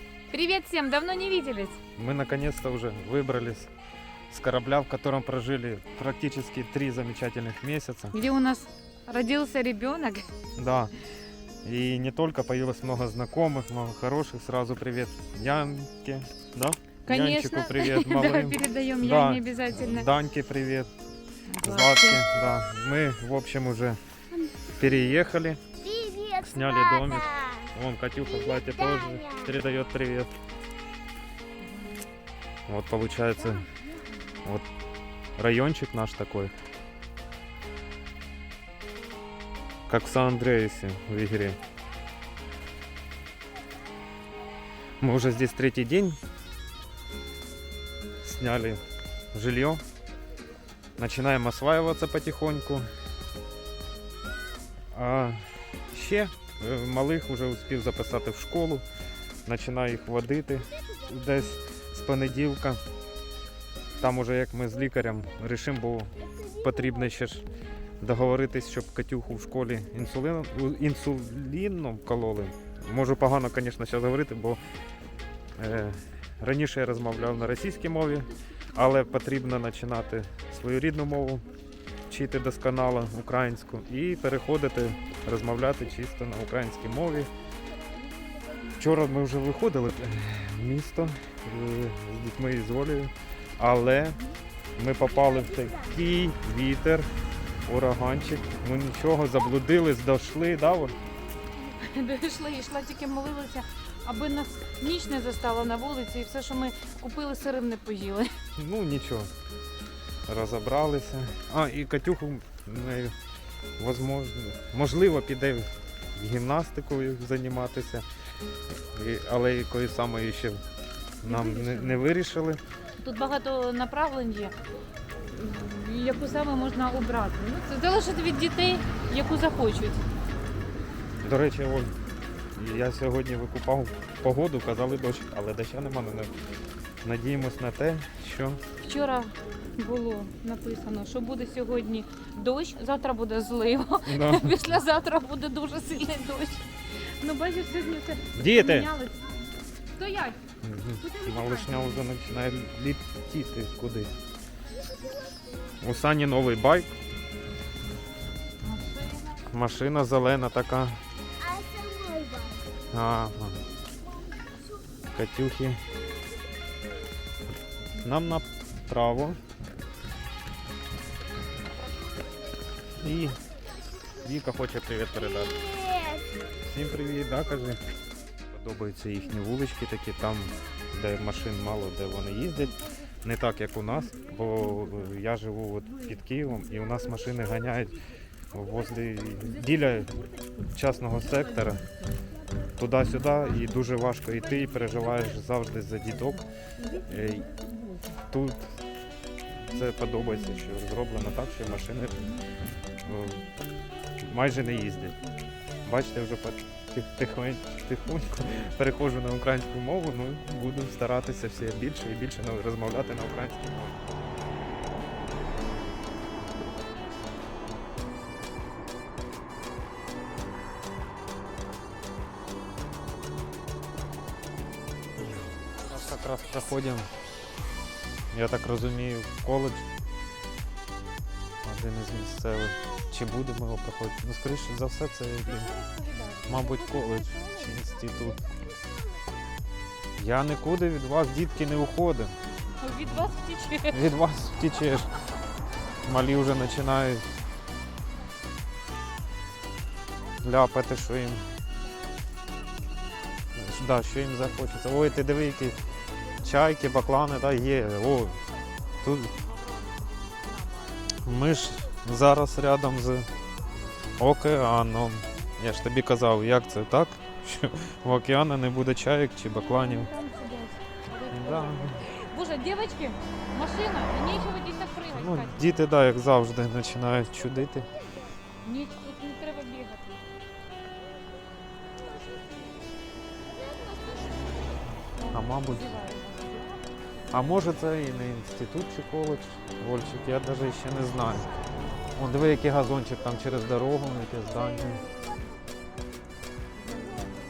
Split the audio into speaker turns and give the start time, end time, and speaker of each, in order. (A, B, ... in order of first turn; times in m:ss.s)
0:00.3-0:01.8 A
0:02.0-0:03.7 B
0:04.3-0:08.2 B
0:08.1-0:10.3 A
0:10.6-0:10.9 B
0:11.6-0:20.9 B
0:17.1-0:20.1 A
0:21.5-0:22.2 A
0:21.6-0:24.0 B
0:24.6-0:25.6 B
0:25.8-0:26.4 C
0:26.3-0:30.3 B
0:32.7-0:33.7 B
0:35.4-0:36.5 B
0:39.9-0:41.6 B
0:45.0-0:46.2 B
0:48.2-0:48.8 B
0:49.3-0:49.8 B
0:51.0-0:52.8 B
0:54.9-0:58.8 B
0:59.4-1:02.8 B
1:04.0-1:07.5 B
1:08.0-1:14.6 B
1:15.6-1:21.4 B
1:22.1-1:27.3 B
1:28.7-1:34.2 B
1:34.8-1:37.1 B
1:37.6-1:41.0 B
1:41.7-1:48.4 A
1:48.6-1:49.3 B
1:50.3-1:53.1 B
1:53.8-1:58.0 B
1:58.9-2:00.6 B
2:01.2-2:02.6 B
2:01.2-2:02.0 A
2:03.0-2:04.6 A
2:05.3-2:10.0 A
2:11.2-2:11.9 B
2:12.5-2:16.3 B
2:17.0-2:18.6 B
2:18.8-2:29.3 A
2:24.0-2:24.6 B
2:28.3-2:28.9 B
2:29.9-2:30.4 A
2:30.6-2:34.1 B
2:31.0-2:32.0 A
2:35.8-2:36.9 B
2:38.6-2:39.4 A
2:39.5-2:41.0 B
2:41.4-2:42.6 C
2:42.9-2:43.6 B
2:45.1-2:45.8 B
2:48.0-2:49.4 B
2:53.0-2:53.4 B
2:54.2-2:56.0 B
2:56.6-2:57.8 B
2:58.5-3:08.0 B
3:08.5-3:10.1 B
3:10.7-3:11.8 B
3:12.8-3:16.4 B
3:17.0-3:17.5 B
3:18.3-3:18.6 B
3:19.7-3:22.2 B
3:23.0-3:23.4 B
3:24.2-3:25.2 B
3:25.8-3:34.0 B
3:45.8-3:47.1 B
3:48.3-3:49.8 B
3:51.6-3:55.7 B
3:55.4-3:57.7 A
3:56.5-3:58.4 B
4:00.2-4:02.3 B
4:02.8-4:04.1 A
4:03.9-4:05.1 B
4:06.0-4:07.2 B
4:10.4-4:11.4 B
4:13.5-4:15.8 B
4:16.4-4:18.4 B
4:19.0-4:19.3 B
4:19.4-4:21.0 A
4:21.2-4:23.3 B
4:24.2-4:30.1 B
4:29.6-4:35.7 A
4:31.3-4:32.0 B
4:35.1-4:37.9 B
4:38.6-4:40.2 A
4:43.7-4:44.4 C
4:45.2-4:46.8 A
4:45.3-4:45.9 B
4:47.3-4:51.5 B
4:52.1-4:55.1 B
4:56.9-4:57.2 A